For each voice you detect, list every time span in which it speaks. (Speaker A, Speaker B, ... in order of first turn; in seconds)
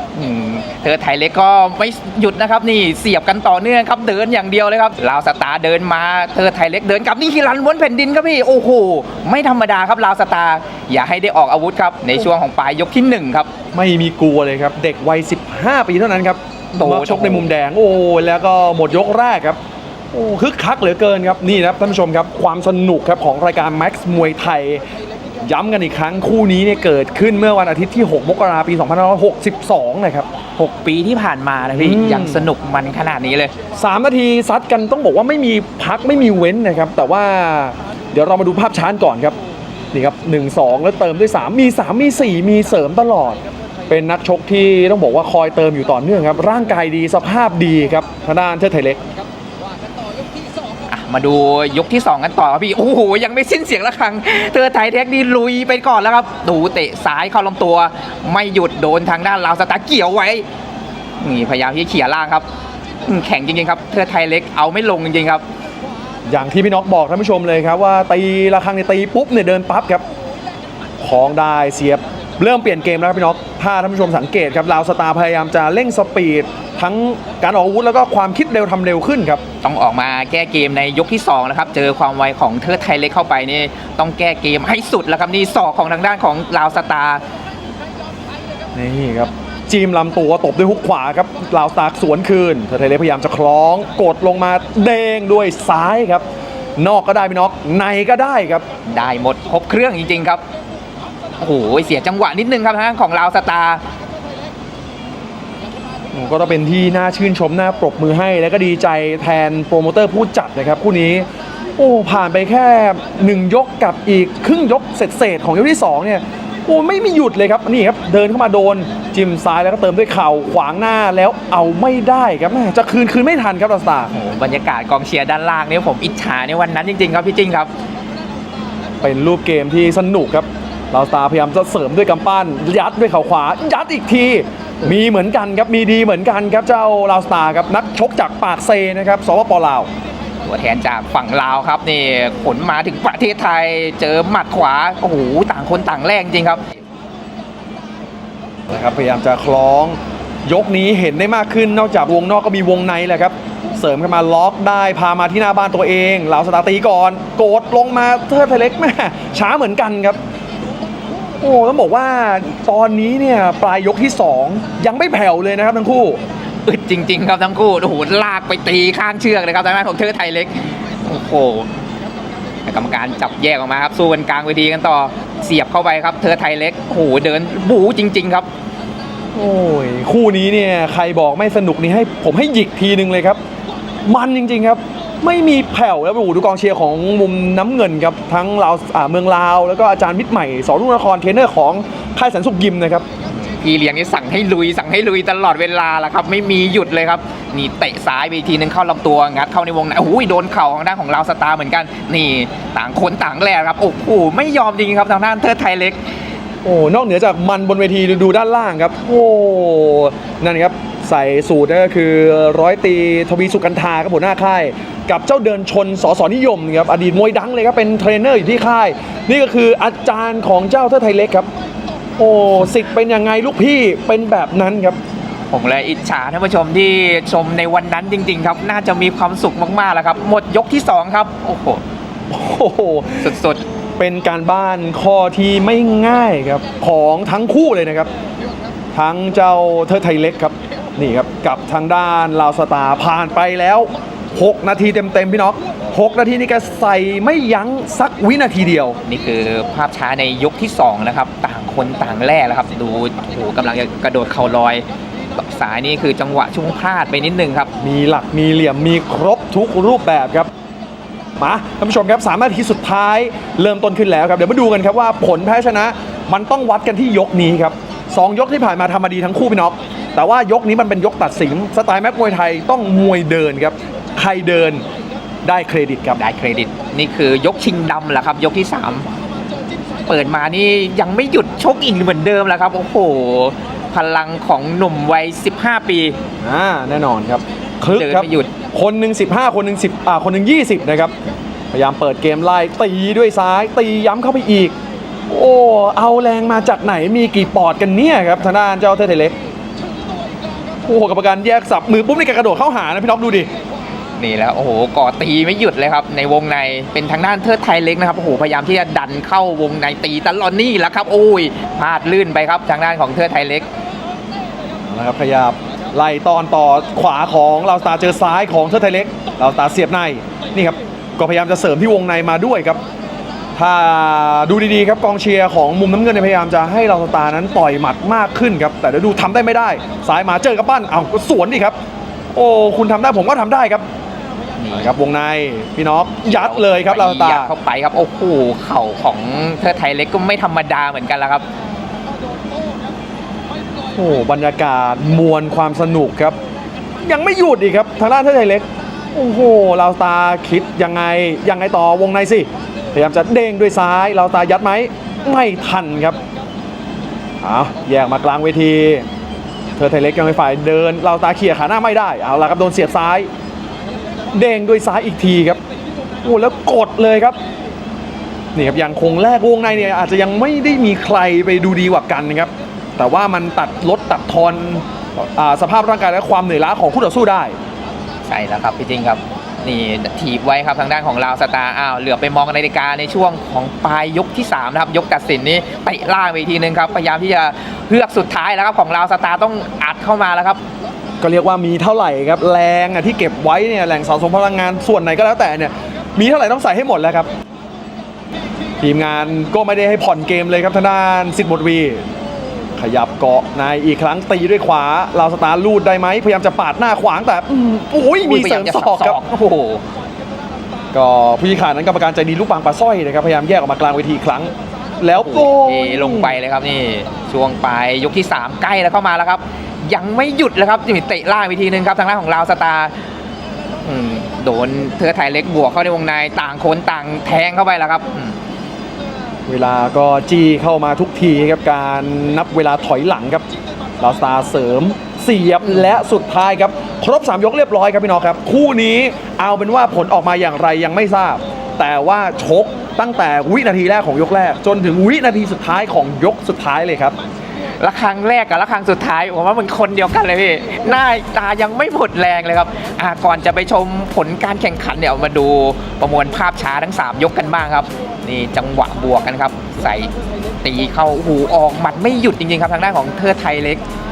Speaker A: 0.1-13.5, 16.7-17.5, 30.6-33.5, 50.9-60.5, 61.2-62.5, 63.0-65.4, 79.6-87.2, 98.9-100.4, 101.4-103.8, 124.1-127.7, 140.4-146.6, 166.7-171.7, 172.7-178.5, 193.3-206.1, 225.5-231.8, 233.2-233.6, 249.1-257.7, 276.1-279.1, 280.1-286.2, 287.9-288.5, 304.2-313.7, 334.6-334.9, 336.3-341.4, 378.3-390.6, 408.2-409.8, 415.1-423.0, 423.8-428.4, 447.8-463.8
Speaker B: 13.7-19.6, 20.1-24.8, 25.4-30.3, 31.7-32.5, 33.8-39.4, 39.9-49.0, 66.3-70.0, 71.0-79.4, 88.8-96.2, 96.8-98.7, 106.1-124.1, 129.0-139.9, 148.7-160.2, 161.4-166.2, 179.3-183.4, 184.1-193.1, 206.6-221.5, 222.2-225.0, 232.3-233.3, 234.0-238.1, 238.9-249.0, 257.8-260.5, 261.4-274.8, 275.4-276.2, 286.4-291.1, 291.7-294.8, 295.3-299.4, 300.9-303.5, 314.9-322.8, 323.6-331.8, 332.4-333.9, 334.7-337.5, 343.9-346.4, 347.0-356.2, 357.4-359.1, 359.8-363.3, 364.3-365.6, 366.2-367.4, 368.6-377.6, 391.2-397.3, 398.8-402.1, 402.8-409.2, 410.9-416.4, 429.5-433.5, 434.0-447.2